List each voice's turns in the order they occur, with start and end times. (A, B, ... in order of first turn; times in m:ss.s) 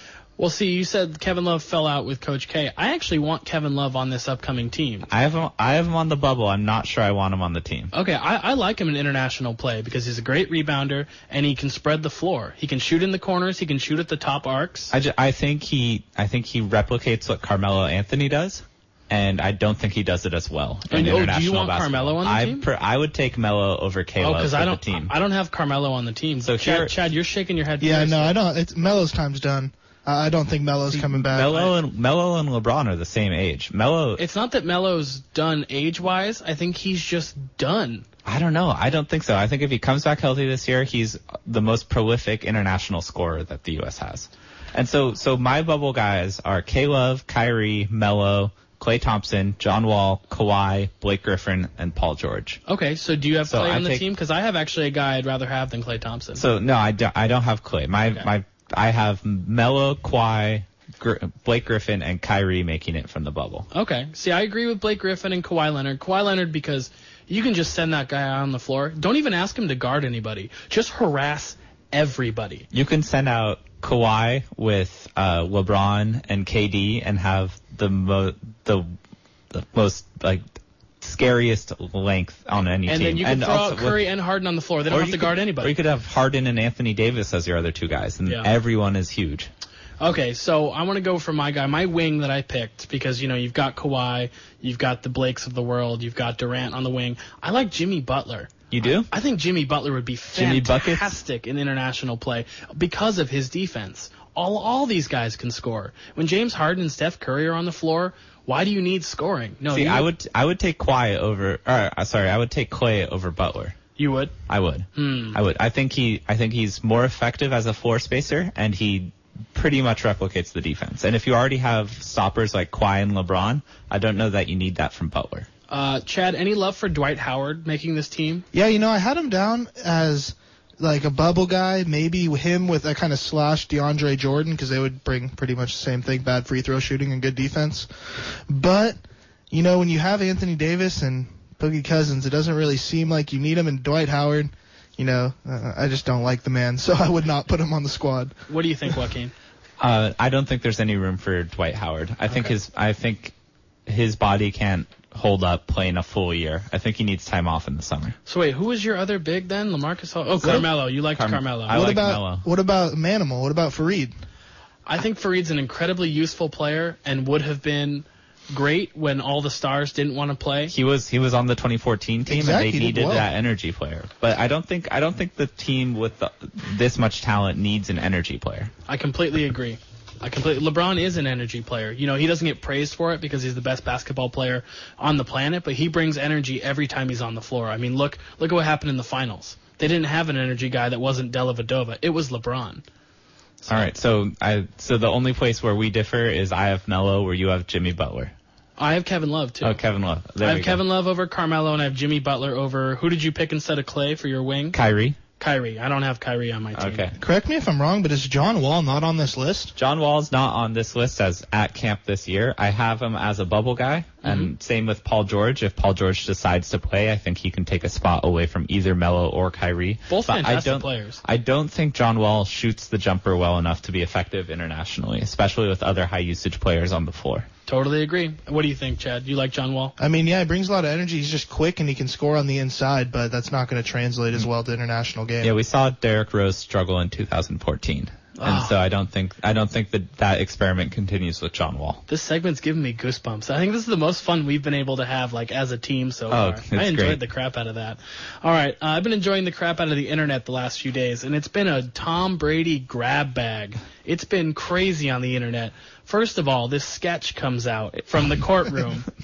0:00.4-0:05.1 A
0:05.1-0:07.9 B
0:07.9-0:14.9 A
0:14.9-0:25.1 B
0:20.9-0:22.6 A
0:24.2-0:28.4 A
0:26.4-0:26.9 B
0:27.8-0:31.7 C
0:30.9-0:34.2 B
0:34.2-0:38.0 A
0:38.2-0:52.6 B
0:52.7-0:56.4 A
0:53.5-0:54.0 B
0:56.4-1:03.7 B
1:03.7-1:12.7 A
1:12.7-1:18.9 B
1:19.5-1:20.4 B
1:21.0-1:24.0 B
1:22.9-1:25.7 A
1:24.9-1:29.5 B
1:30.0-1:38.5 A
1:38.7-1:39.1 B
1:39.1-1:50.1 A
1:40.3-1:41.2 B
1:49.7-1:53.8 B
1:54.0-1:54.3 A
1:54.5-2:05.5 B
1:54.9-1:55.4 A
2:05.7-2:08.4 A
2:08.5-2:19.0 C
2:19.5-2:28.4 C
2:28.5-2:29.3 A
2:29.8-2:33.3 B
2:33.9-2:38.1 B
2:38.3-2:41.8 A
2:40.4-2:42.4 B
2:41.7-2:44.1 C
2:44.9-2:50.7 A
2:50.7-2:58.7 B
2:52.3-2:53.3 C
2:58.9-3:12.8 A
3:13.7-3:18.3 B
3:18.8-3:19.8 A
3:19.6-3:20.8 B
3:20.4-3:24.8 A
3:24.7-3:25.2 B
3:25.4-3:27.1 A
3:26.7-3:27.1 B
3:27.2-3:29.7 C
3:29.8-3:47.5 B
3:34.2-3:34.5 A
3:40.1-3:41.2 A
3:47.7-3:49.9 A
3:50.0-3:55.5 C
3:55.4-4:02.0 B
3:58.4-3:58.7 A
4:02.1-4:19.1 A
4:06.3-4:07.2 B